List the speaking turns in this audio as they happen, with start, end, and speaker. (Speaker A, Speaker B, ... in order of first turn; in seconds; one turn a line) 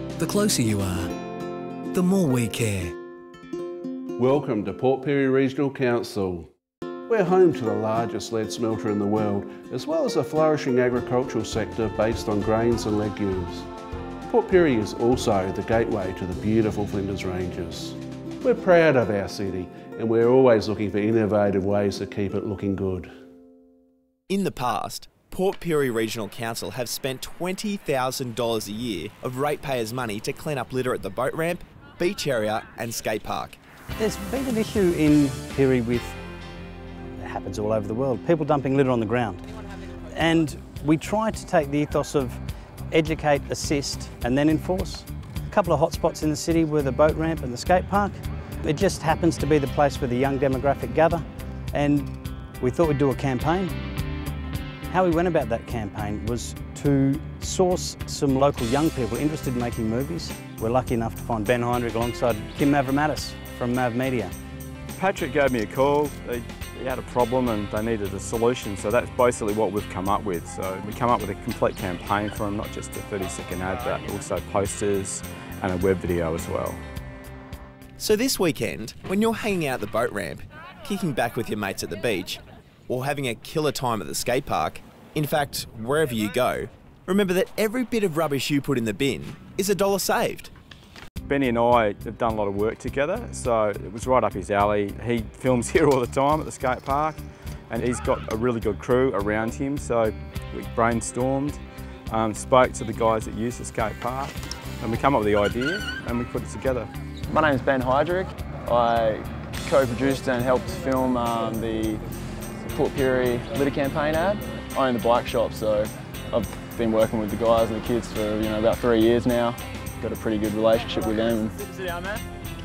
Speaker A: 0.2-1.1
Speaker A: 1.9-2.9
Speaker B: 4.2-6.5
Speaker B: 7.1-13.7
Speaker B: 14.3-23.1
Speaker C: 24.3-33.6
Speaker D: 34.0-36.1
Speaker D: 37.2-39.4
Speaker D: 40.1-53.7
Speaker D: 54.9-64.3
Speaker E: 65.0-76.8
Speaker C: 78.0-90.5
Speaker E: 91.3-106.9
Speaker F: 107.3-112.0
Speaker F: 112.7-122.0